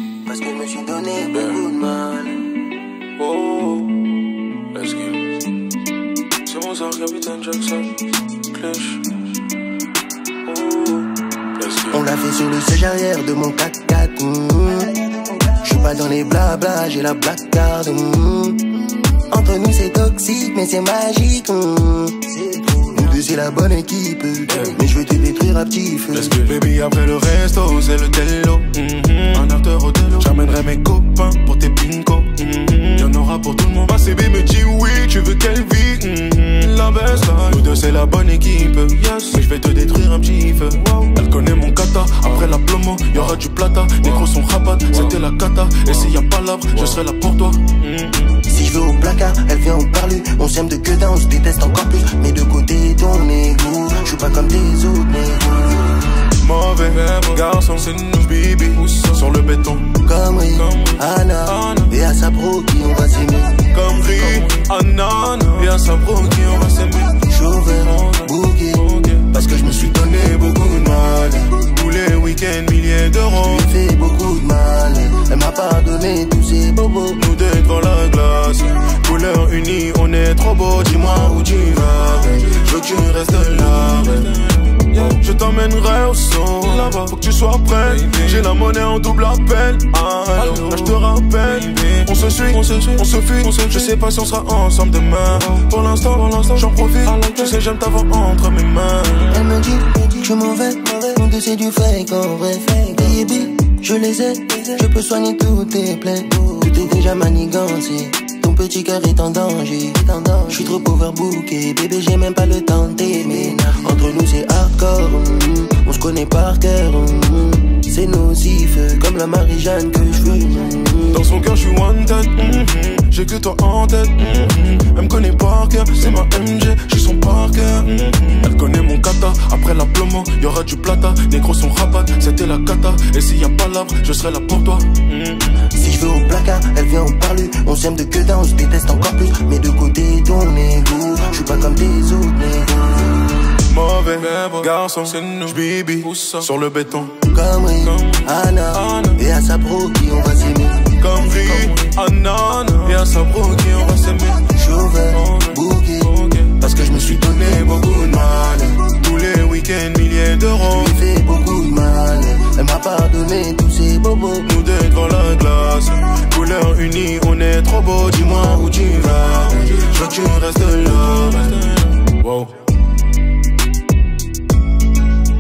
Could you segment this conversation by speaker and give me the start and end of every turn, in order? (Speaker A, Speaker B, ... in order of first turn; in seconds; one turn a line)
Speaker A: 0.1-2.6
Speaker B: 3.2-5.5
Speaker B: 6.5-9.3
Speaker B: 10.5-12.0
Speaker A: 11.9-26.4
Speaker B: 24.5-24.8
Speaker B: 26.1-48.4
Speaker A: 48.5-56.0
Speaker B: 56.4-60.0
Speaker A: 60.0-63.7
Speaker B: 60.6-61.9
Speaker B: 63.7-67.3
Speaker A: 67.2-71.2
Speaker B: 67.9-73.7
Speaker A: 73.4-77.2
Speaker B: 77.2-99.4
Speaker A: 99.3-121.2
Speaker B: 121.1-135.6
Speaker A: 135.7-143.2
Speaker B: 143.6-147.3
Speaker A: 147.2-150.9
Speaker B: 147.8-149.2
Speaker B: 151.0-154.5
Speaker A: 154.5-158.7
Speaker B: 155.1-160.9
Speaker A: 160.7-164.5
Speaker B: 164.4-172.6